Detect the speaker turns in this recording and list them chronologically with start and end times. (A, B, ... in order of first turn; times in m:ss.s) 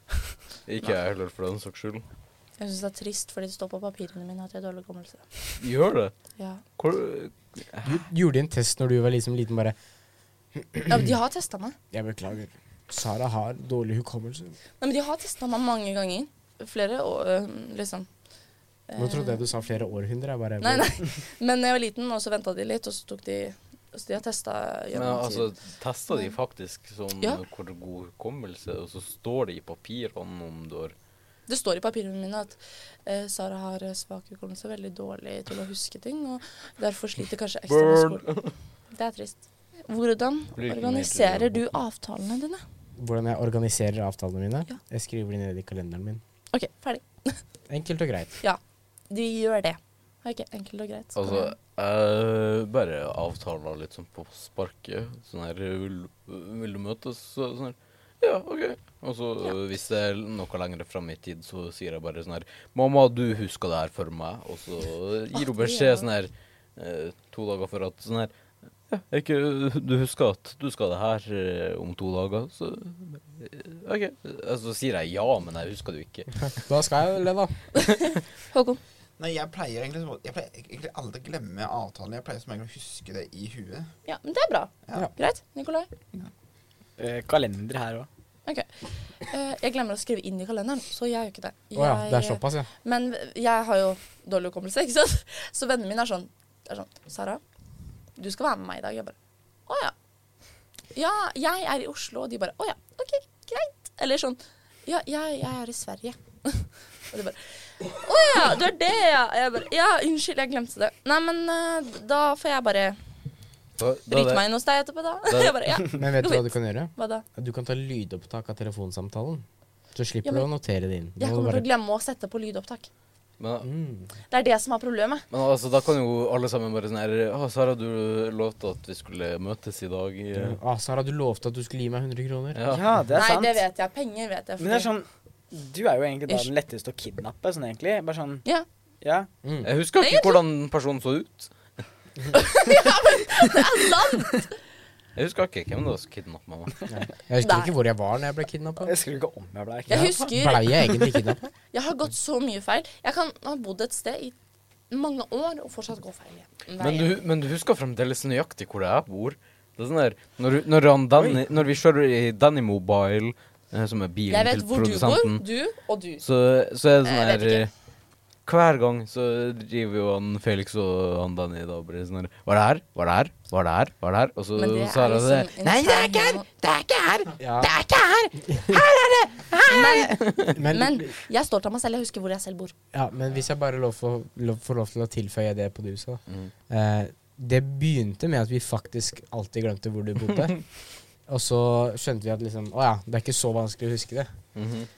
0:00.7-0:02.0 A
0:02.6-0:05.3 B
0:05.6-0:06.1 A
0:06.8-0:08.0 A
0:07.8-0:09.8 C
0:10.6-0:11.1 C
0:10.9-0:11.8 B
0:11.9-0:14.6 C
0:14.8-0:18.1 B
0:18.9-0:19.4 B
0:19.0-0:20.9 C
0:20.6-0:25.5 B
0:24.9-0:30.9 A
0:31.5-0:38.3 B
0:37.7-0:38.5 A
0:38.9-0:42.6 B
0:40.6-0:41.6 A
0:43.0-0:46.2 C
0:46.5-0:47.4 B
0:47.7-0:48.4 C
0:49.1-0:51.5 B
0:51.1-1:08.3 A
1:05.4-1:06.1 B
1:08.9-1:16.5 A
1:16.6-1:17.6 C
1:17.8-1:18.8 B
1:19.2-1:23.9 D
1:24.0-1:25.9 B
1:27.0-1:28.1 E
1:28.5-1:37.4 B
1:31.8-1:32.7 C
1:38.2-1:39.1 B
1:39.7-1:39.9 B
1:40.9-1:53.0 B
1:53.8-1:54.4 A
1:54.1-1:57.2 B
1:55.3-1:55.6 A
1:55.9-2:01.7 C
2:01.2-2:02.9 B
2:03.4-2:03.7 A
2:03.6-2:04.1 C
2:04.3-2:05.2 B
2:05.3-2:10.6 A
2:10.3-2:12.6 C
2:12.6-2:12.9 A
2:12.7-2:13.6 E
2:13.1-2:14.9 B
2:14.6-2:18.4 E
2:19.0-2:19.3 E
2:19.4-2:19.7 C
2:19.6-2:21.5 A
2:20.0-2:20.4 B
2:22.3-2:24.5 B
2:25.2-2:26.7 A
2:26.9-2:28.9 C
2:27.4-2:27.7 B
2:28.8-2:30.2 E
2:29.9-2:30.8 B
2:29.9-2:31.5 C
2:31.7-2:34.4 B
2:34.9-2:37.1 B
2:36.8-2:45.4 A
2:44.3-2:46.2 B
2:46.2-2:47.7 A
2:47.0-2:47.7 B
2:48.5-2:55.5 A
2:54.6-2:56.5 B
2:55.6-3:00.2 F
2:57.4-2:57.7 C
2:58.4-2:58.8 C
2:59.7-3:02.7 B
3:00.5-3:01.1 C
3:02.9-3:10.6 C
3:11.3-3:14.3 C
3:14.6-3:14.9 A